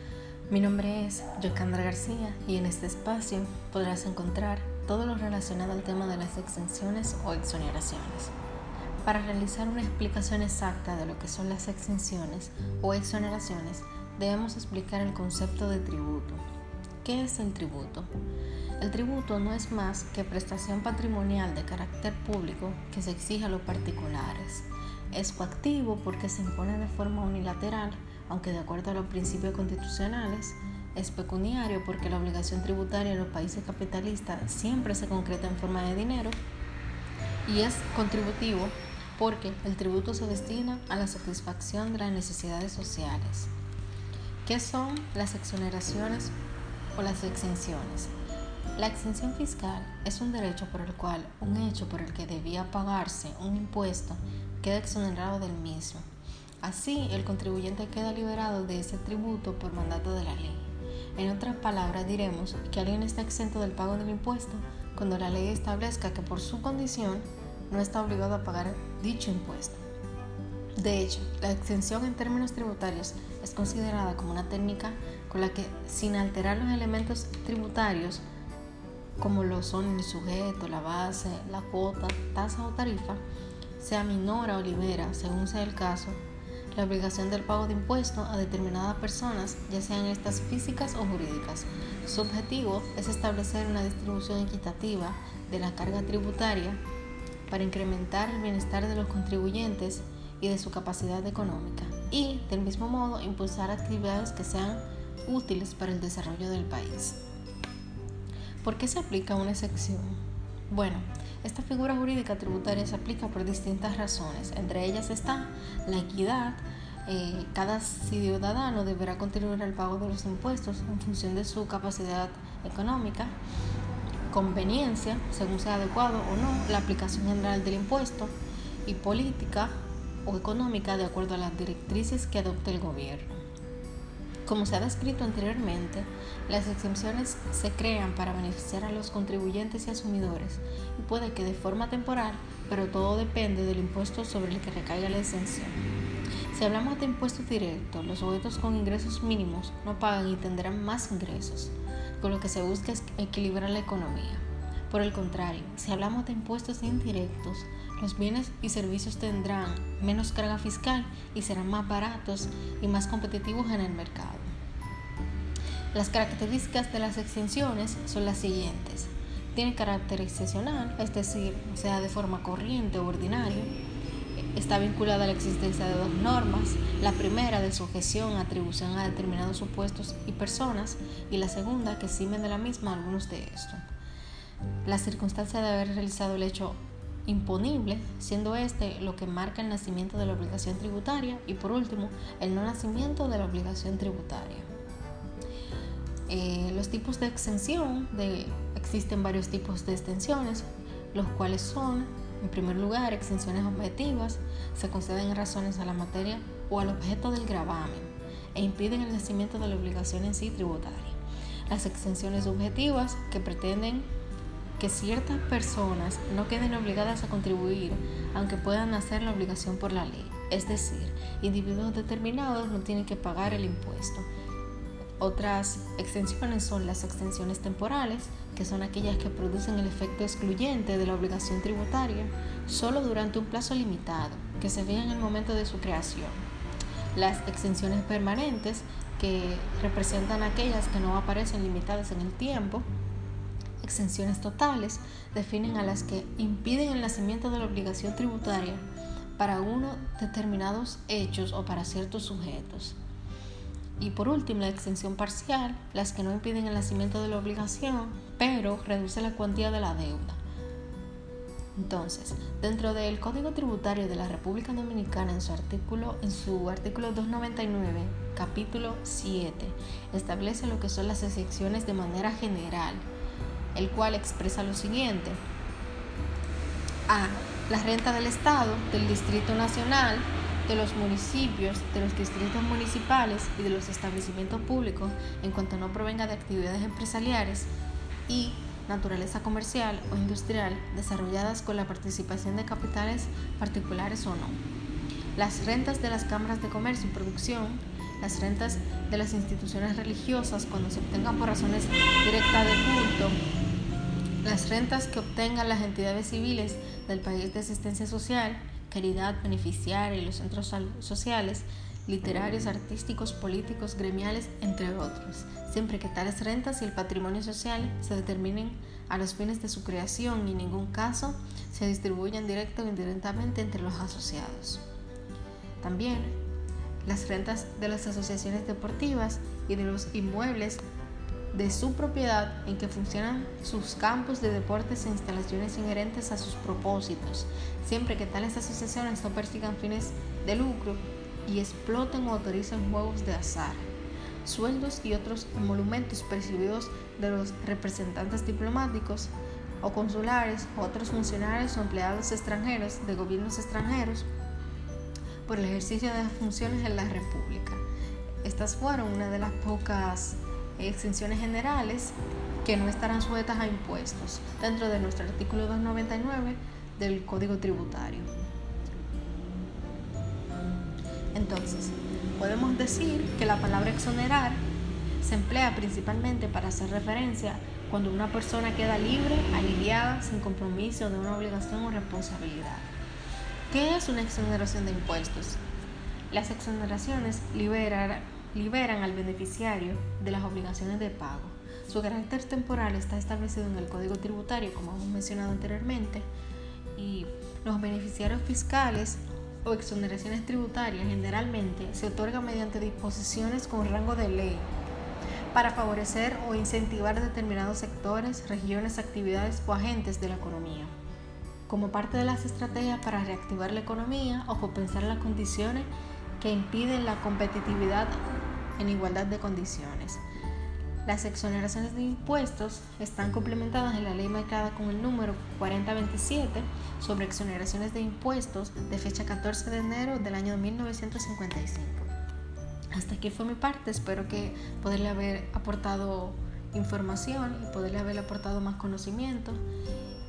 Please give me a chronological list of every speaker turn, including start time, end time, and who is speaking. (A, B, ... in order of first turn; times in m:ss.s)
0:00.5-0:08.3 A
0:09.0-0:16.4 A
0:17.0-0:18.1 A
0:18.8-0:36.4 A
0:37.4-0:43.5 A
0:44.4-0:46.3 A
0:47.0-0:48.1 A
0:48.8-0:56.0 A
0:56.6-1:09.8 A
1:10.8-1:18.2 A
1:19.2-1:23.2 A
1:23.8-1:26.2 A
1:26.7-1:36.8 A
1:37.5-1:47.2 A
1:48.6-1:50.2 A
1:50.7-2:03.4 A
2:04.3-2:08.3 A
2:08.8-2:09.7 A
2:10.2-2:13.4 A
2:14.5-2:25.8 A
2:26.5-2:44.5 A
2:45.9-2:53.7 A
2:54.4-3:03.8 A
3:04.8-3:14.7 A
3:16.3-3:31.2 A
3:31.7-3:34.1 A
3:34.8-3:44.3 A
3:45.2-3:56.4 A
3:57.2-4:02.9 A
4:03.8-4:08.8 A
4:09.4-4:13.0 A
4:14.0-4:20.4 A
4:21.8-4:33.0 A
4:33.7-4:35.4 A
4:37.1-4:47.7 A
4:48.3-4:54.6 A
4:55.4-5:03.4 A
5:04.4-5:24.8 A
5:25.8-5:26.3 A
5:27.0-5:30.8 A
5:31.5-5:43.9 A
5:44.4-5:54.3 A
5:55.5-5:57.8 A
5:58.4-6:08.3 A
6:11.3-6:14.6 A
6:15.2-6:22.9 A
6:23.7-6:25.6 A
6:26.3-6:36.3 A
6:37.0-6:44.7 A
6:45.5-6:50.9 A
6:51.7-6:55.9 A
6:56.4-7:00.2 A
7:01.0-7:12.1 A
7:12.9-7:19.6 A